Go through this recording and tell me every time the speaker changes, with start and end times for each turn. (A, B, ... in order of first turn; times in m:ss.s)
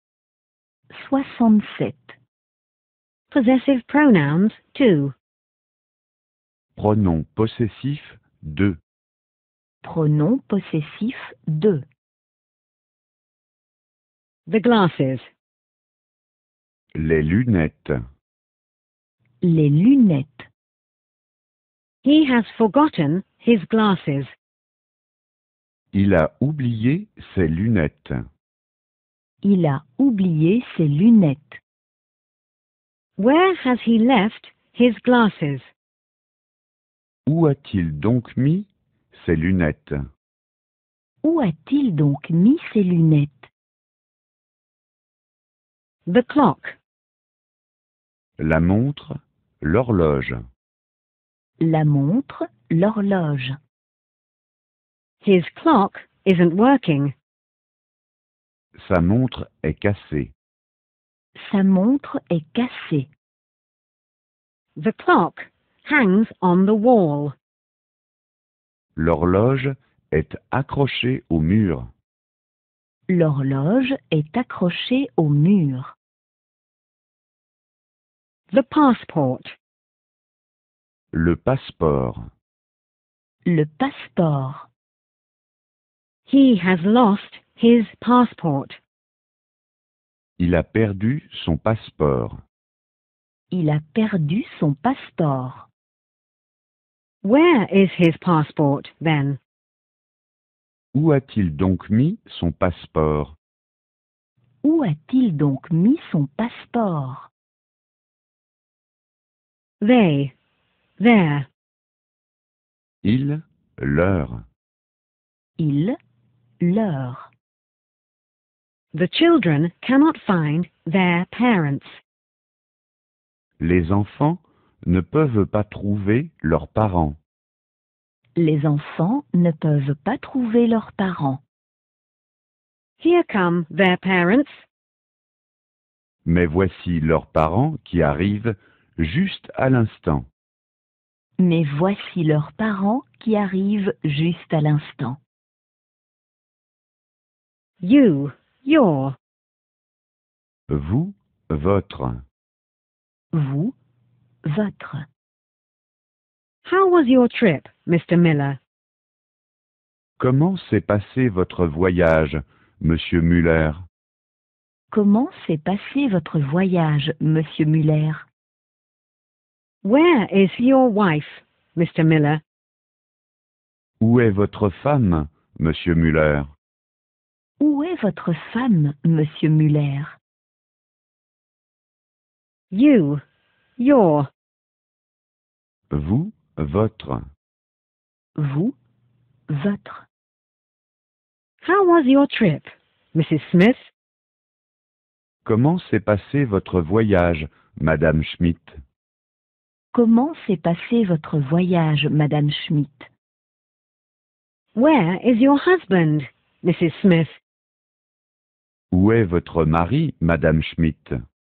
0:00.9-0:02.2 A
0:03.3-0:05.1 B
0:06.8-0:08.8 C
0:09.8-0:11.8 A
0:14.5-0:15.3 B
0:17.0-0:18.0 C
0:19.4-0:20.5 A
0:22.0-0:24.3 B
0:25.9-0:28.2 C
0:29.4-0:31.6 A
0:33.2-0:35.7 B
0:37.3-0:40.0 C
0:41.2-0:43.5 A
0:46.1-0:46.8 B
0:48.4-0:50.4 C
0:51.6-0:53.6 A
0:55.2-0:57.1 B
0:58.8-1:00.3 C
1:01.4-1:03.1 A
1:04.8-1:07.3 B
1:09.0-1:11.9 C
1:13.1-1:16.0 A
1:18.5-1:19.5 B
1:21.1-1:22.2 C
1:23.5-1:24.7 A
1:26.3-1:28.8 B
1:30.4-1:32.4 C
1:33.5-1:35.7 A
1:37.2-1:39.4 B
1:40.9-1:43.4 C
1:44.6-1:47.3 A
1:49.8-1:50.3 B
1:51.0-1:51.5 B
1:53.0-1:54.4 C
1:55.6-1:56.0 A
1:56.6-1:57.3 A
1:58.9-2:01.9 B
2:03.6-2:07.2 C
2:08.4-2:11.4 A
2:13.0-2:14.6 B
2:16.2-2:20.3 C
2:21.4-2:25.2 A
2:27.8-2:29.2 B
2:30.7-2:32.2 C
2:33.3-2:33.8 A
2:34.5-2:35.0 A
2:36.6-2:38.6 B
2:40.2-2:43.8 C
2:44.9-2:48.3 A
2:49.8-2:52.4 B
2:54.0-2:56.5 C
2:57.6-3:00.2 A
3:02.7-3:03.2 B
3:03.8-3:04.3 B
3:05.9-3:07.2 C
3:08.4-3:08.8 A
3:09.5-3:10.1 A
3:11.6-3:13.9 B
3:15.4-3:18.8 C
3:19.9-3:23.1 A
3:24.8-3:27.4 B
3:28.9-3:31.2 C